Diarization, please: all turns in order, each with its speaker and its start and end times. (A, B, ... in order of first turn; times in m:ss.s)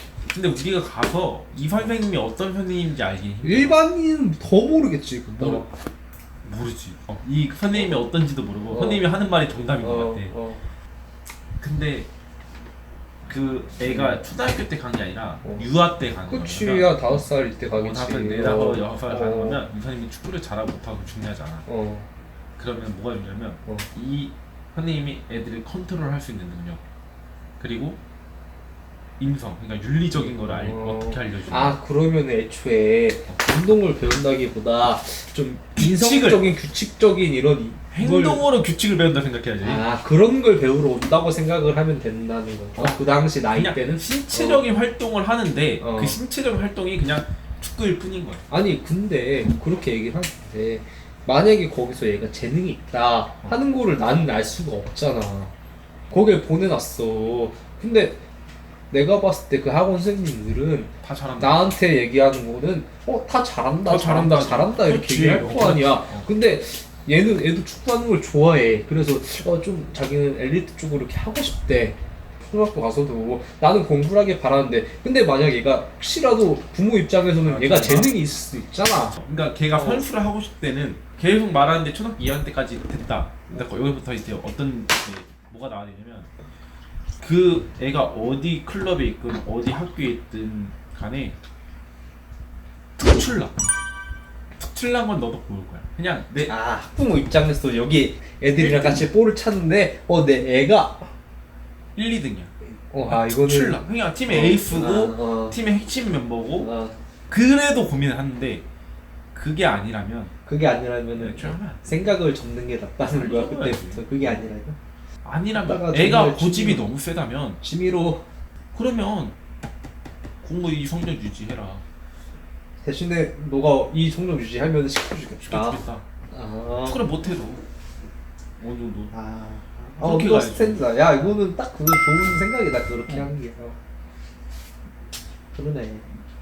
0:00.3-0:03.8 A
0:03.4-0:05.7 B
0:05.4-0:05.7 A
0:06.4-0:10.4 A
0:08.7-0:09.0 B
0:09.8-0:10.6 B
0:11.6-0:12.1 A
0:13.2-0:17.0 A
0:13.9-0:14.2 B
0:16.2-0:19.7 B
0:17.7-0:21.6 A
0:21.6-0:22.1 B
0:22.6-0:26.8 A
0:27.6-0:28.0 A
0:29.2-0:31.8 A
0:30.1-0:38.4 B
0:35.8-0:36.5 A
0:37.9-0:39.8 A
0:39.6-0:44.7 B
0:43.5-0:48.4 A
0:45.8-0:46.2 B
0:48.5-0:55.5 B
0:56.1-0:58.2 B
0:58.9-1:19.2 B
1:01.0-1:01.7 A
1:03.8-1:06.3 A
1:17.4-1:18.1 A
1:19.2-1:26.3 A
1:19.7-1:20.1 B
1:27.2-1:31.4 A
1:33.0-1:33.6 A
1:34.6-1:36.5 A
1:36.4-1:41.1 B
1:38.6-1:39.1 A
1:42.0-1:42.5 A
1:42.9-1:45.6 B
1:43.0-1:46.7 A
1:46.6-1:47.0 B
1:47.3-1:48.6 A
1:49.3-1:50.3 A
1:50.4-1:54.8 B
1:51.2-1:51.8 A
1:53.1-1:54.1 A
1:55.2-1:57.6 A
1:55.5-1:56.9 B
1:57.6-1:58.2 B
1:58.7-1:59.4 A
2:00.4-2:01.8 A
2:02.8-2:07.0 B
2:05.4-2:06.0 A
2:06.8-2:07.6 A
2:08.6-2:09.1 A
2:09.1-2:13.8 B
2:10.0-2:10.8 A
2:15.5-2:16.1 B